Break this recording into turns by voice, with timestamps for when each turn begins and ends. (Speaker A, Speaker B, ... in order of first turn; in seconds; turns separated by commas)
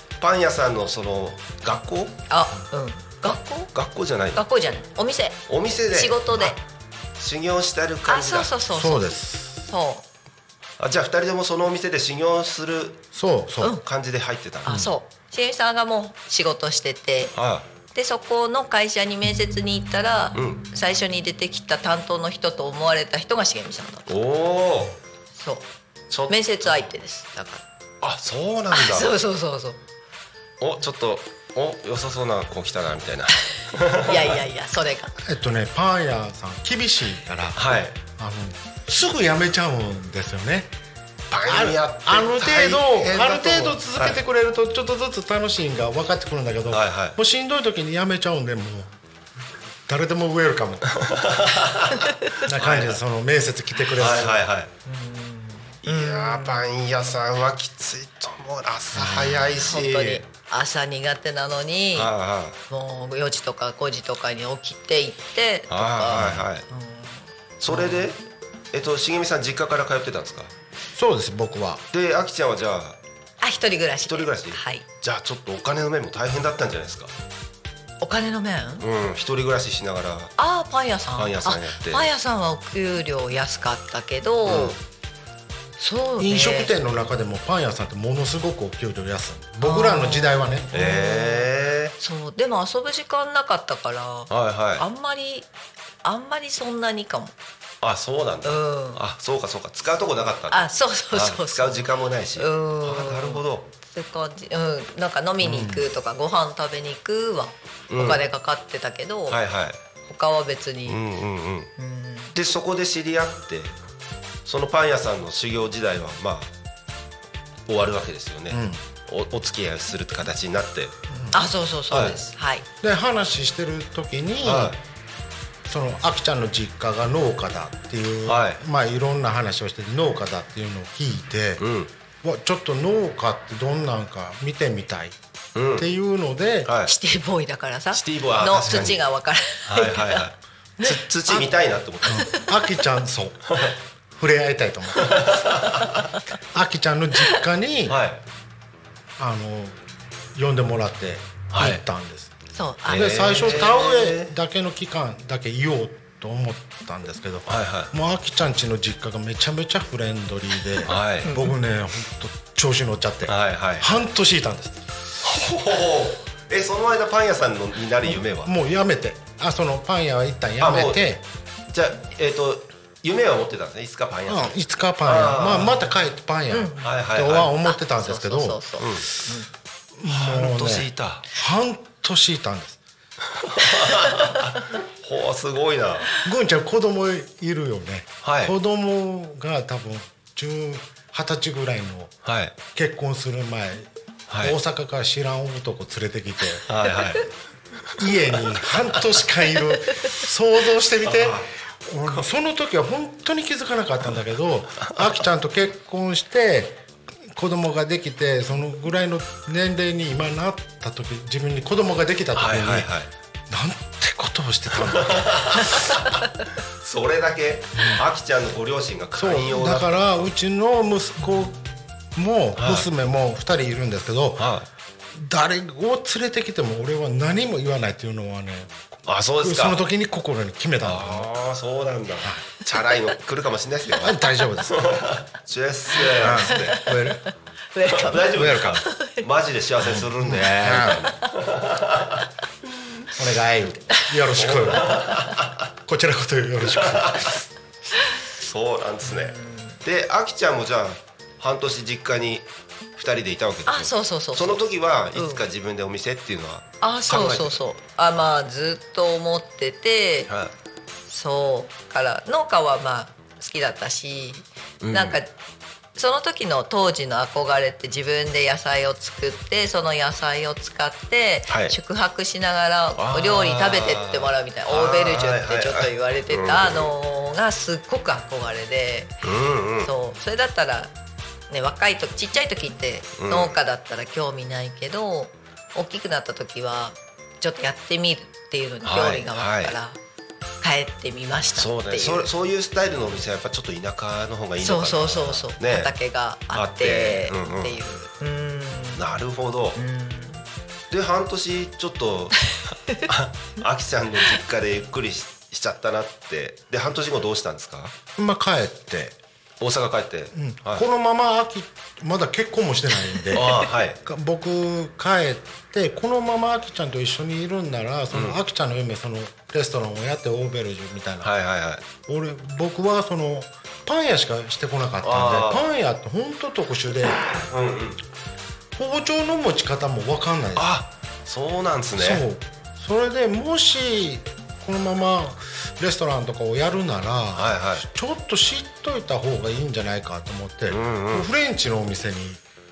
Speaker A: 0.2-2.2, Speaker B: 2.3-3.7, Speaker A: 3.7-4.4, Speaker B: 4.4-6.6, Speaker A: 5.5-6.6, Speaker A: 7.2-8.5, Speaker B: 8.1-10.1, Speaker C: 8.7-9.7, Speaker A: 10.8-13.1, Speaker C: 13.1-13.8, Speaker A: 13.8-14.9, Speaker B: 14.6-17.3, Speaker A: 17.3-17.7, Speaker B: 17.9-24.1, Speaker A: 20.4-20.6, Speaker A: 24.1-25.0, Speaker B: 25.4-25.6, Speaker A: 26.1-26.8, Speaker B: 26.3-27.6, Speaker A: 28.0-29.1, Speaker B: 28.7-29.8, Speaker A: 30.6-34.4, Speaker B: 34.0-35.1, Speaker C: 35.2-40.7, Speaker A: 37.5-38.0, Speaker A: 41.3-44.2, Speaker C: 41.5-49.0, Speaker A: 46.7-47.2, Speaker C: 49.9-51.0, Speaker A: 51.0-53.0, Speaker C: 52.5-54.4, Speaker A: 54.0-54.7, Speaker B: 54.9-56.7, Speaker A: 55.8-60.2, Speaker C: 58.9-59.5, Speaker B: 59.5-62.1, Speaker A: 62.0-62.6, Speaker B: 62.7-68.1, Speaker A: 65.7-66.7, Speaker A: 67.6-70.5, Speaker C: 70.9-71.8, Speaker A: 71.9-73.0, Speaker B: 73.4-74.8, Speaker A: 74.1-77.1, Speaker B: 78.0-78.9, Speaker A: 78.8-80.3, Speaker B: 80.4-84.8, Speaker A: 81.2-82.1, Speaker A: 84.5-84.8, Speaker B: 85.8-86.7, Speaker C: 86.2-90.7, Speaker B: 89.6-95.5, Speaker A: 90.7-92.0, Speaker A: 94.3-94.8, Speaker B: 96.0-97.3, Speaker A: 97.8-103.7, Speaker B: 98.5-99.0, Speaker B: 100.5-101.8, Speaker B: 102.4-109.4, Speaker C: 105.4-105.8, Speaker A: 107.9-108.2, Speaker A: 109.3-109.8, Speaker B: 110.1-111.0, Speaker A: 110.9-111.7, Speaker B: 111.8-112.3, Speaker A: 112.3-113.8, Speaker A: 114.5-116.5, Speaker A: 117.7-121.0, Speaker C: 118.5-118.8, Speaker C: 121.1-121.4, Speaker B: 121.3-122.7, Speaker A: 121.9-122.2, Speaker C: 122.8-124.8, Speaker A: 124.4-124.8, Speaker C: 125.7-131.6, Speaker A: 128.2-128.6, Speaker A: 131.6-131.9, Speaker C: 132.2-135.2, Speaker A: 135.6-135.9, Speaker C: 135.8-136.7, Speaker A: 136.7-136.9, Speaker B: 136.8-140.2, Speaker A: 137.9-139.0, Speaker A: 139.7-142.3, Speaker C: 140.8-141.5, Speaker C: 142.1-145.2, Speaker B: 142.2-142.5, Speaker A: 145.0-146.1, Speaker C: 146.5-148.0, Speaker A: 147.9-148.2, Speaker C: 149.2-149.8, Speaker C: 150.3-152.3, Speaker A: 151.5-151.8, Speaker B: 152.5-153.6, Speaker C: 152.9-164.9, Speaker A: 152.9-154.3, Speaker A: 157.5-157.9, Speaker A: 160.8-161.4, Speaker B: 160.9-161.5, Speaker A: 163.2-164.0, Speaker A: 165.2-168.5, Speaker C: 168.2-171.2, Speaker A: 170.6-171.0, Speaker A: 171.7-175.8, Speaker C: 174.3-178.6, Speaker A: 176.8-177.5, Speaker B: 177.6-179.5, Speaker A: 178.8-179.1, Speaker C: 180.0-182.8, Speaker A: 180.1-181.3, Speaker A: 183.4-186.1, Speaker B: 183.9-184.4, Speaker C: 186.2-192.1, Speaker A: 188.2-188.6, Speaker A: 192.2-192.6, Speaker C: 192.7-196.7, Speaker A: 194.3-194.6, Speaker A: 196.7-197.3, Speaker C: 198.0-212.9, Speaker A: 201.0-201.5, Speaker A: 212.3-213.1, Speaker C: 213.5-215.8, Speaker A: 214.9-216.2, Speaker A: 216.8-220.3, Speaker C: 217.8-218.0, Speaker C: 219.2-224.5, Speaker A: 222.6-222.9, Speaker A: 224.4-224.7, Speaker C: 225.1-228.8, Speaker A: 229.1-229.8, Speaker C: 229.4-231.3, Speaker A: 230.8-236.8, Speaker C: 234.0-234.9, Speaker C: 236.2-237.2, Speaker B: 236.4-239.2, Speaker A: 237.8-242.2, Speaker C: 238.3-238.8, Speaker C: 239.8-241.1, Speaker C: 243.1-245.0, Speaker A: 244.3-245.6, Speaker C: 245.8-247.5, Speaker A: 246.7-247.4, Speaker A: 248.3-257.6, Speaker B: 249.1-249.8, Speaker B: 253.7-255.5, Speaker B: 256.8-260.3, Speaker B: 261.1-265.3, Speaker A: 264.8-265.2, Speaker B: 266.0-279.1, Speaker A: 271.5-271.8, Speaker A: 273.0-276.9, Speaker A: 279.2-279.9, Speaker B: 279.8-280.9, Speaker B: 281.5-290.0, Speaker A: 283.2-283.6, Speaker A: 288.8-289.8, Speaker B: 290.6-292.3, Speaker A: 291.6-295.9, Speaker B: 294.6-299.2, Speaker A: 296.5-297.8, Speaker A: 299.0-299.8, Speaker B: 299.8-300.4, Speaker A: 300.9-307.9, Speaker C: 308.2-309.2, Speaker A: 309.6-310.9, Speaker C: 310.3-321.3, Speaker A: 313.3-314.0, Speaker A: 318.1-318.4, Speaker A: 321.2-321.9, Speaker C: 322.1-327.4, Speaker A: 325.0-325.7, Speaker A: 327.5-328.0, Speaker C: 328.8-330.7, Speaker A: 330.6-332.2, Speaker C: 332.0-342.4, Speaker A: 337.4-337.9, Speaker A: 340.7-341.3